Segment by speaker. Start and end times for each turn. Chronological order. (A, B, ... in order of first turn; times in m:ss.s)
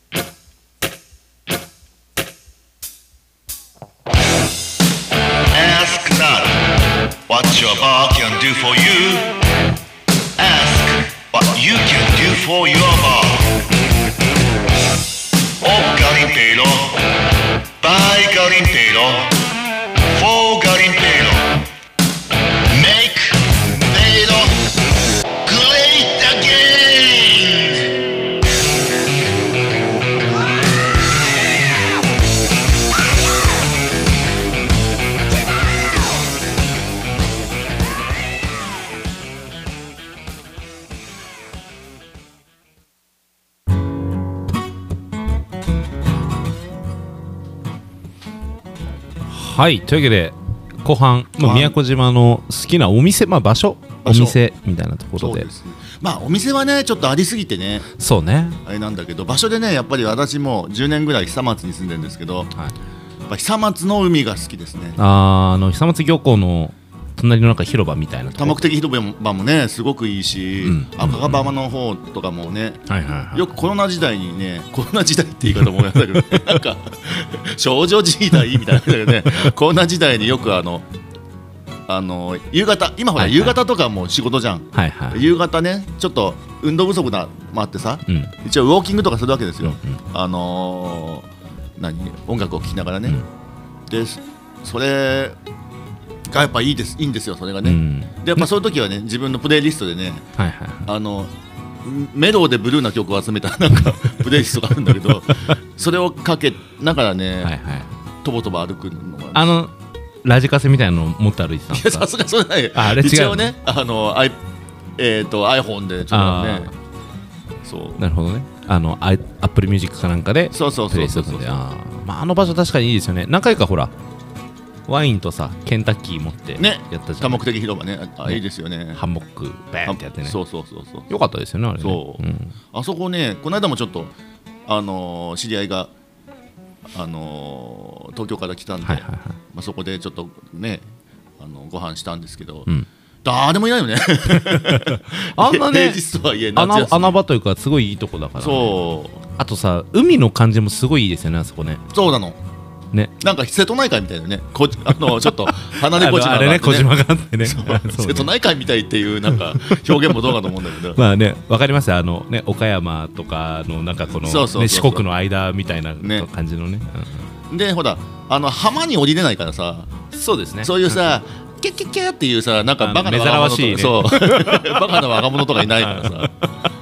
0:05.5-0:06.5 A
0:05.6-0:06.4 B
0:07.3-0:09.2 B
0:07.3-0:09.3 A
0:10.4-0:13.4 A
0:10.4-0:13.4 B
0:15.6-0:16.8 B
0:15.6-0:16.9 A
0:17.8-0:19.3 A
0:17.8-0:19.2 B
0:20.2-0:21.4 A
0:20.2-0:21.4 B
0:22.7-0:23.3 A
0:22.8-0:23.2 B
0:23.9-0:24.4 A
0:23.9-0:24.4 B
0:25.5-0:27.7 A
0:25.6-0:26.7 B
0:49.2-0:55.5 C
0:51.4-0:51.8 B
0:54.0-0:54.4 B
0:55.2-0:57.9 B
0:58.0-0:58.6 C
0:58.6-1:02.5 B
1:03.3-1:05.0 B
1:05.0-1:08.6 C
1:08.4-1:20.9 B
1:10.6-1:11.5 C
1:12.9-1:13.5 C
1:16.2-1:16.5 C
1:21.9-1:31.3 B
1:23.2-1:23.6 C
1:24.7-1:25.2 C
1:28.1-1:28.3 C
1:29.6-1:30.0 C
1:31.8-1:33.2 B
1:33.9-1:35.4 B
1:36.3-1:40.3 B
1:37.6-1:38.4 C
1:40.4-1:40.9 C
1:40.8-1:41.3 B
1:41.8-1:47.6 B
1:47.4-1:47.9 C
1:48.2-1:49.5 B
1:49.3-1:49.7 C
1:50.2-1:52.1 C
1:51.7-1:54.4 B
1:52.7-1:53.5 C
1:55.0-1:56.7 B
1:56.1-1:56.7 C
1:57.6-1:58.0 B
1:58.0-2:03.9 C
2:00.5-2:01.6 B
2:04.9-2:07.5 C
2:06.6-2:09.0 B
2:09.0-2:10.4 C
2:09.9-2:11.1 B
2:11.1-2:12.5 C
2:11.8-2:14.1 B
2:14.7-2:15.9 B
2:16.9-2:20.9 B
2:18.8-2:19.4 C
2:21.4-2:22.7 B
2:23.2-2:27.2 B
2:24.3-2:26.0 C
2:26.6-2:28.8 C
2:28.4-2:29.2 B
2:29.4-2:31.8 C
2:31.9-2:32.4 B
2:33.2-2:41.0 B
2:35.1-2:38.3 C
2:39.3-2:40.4 C
2:40.9-2:47.3 C
2:44.2-2:45.0 B
2:46.0-2:46.3 B
2:47.5-2:49.9 B
2:50.1-2:51.0 C
2:50.6-2:56.4 B
2:52.8-2:56.4 C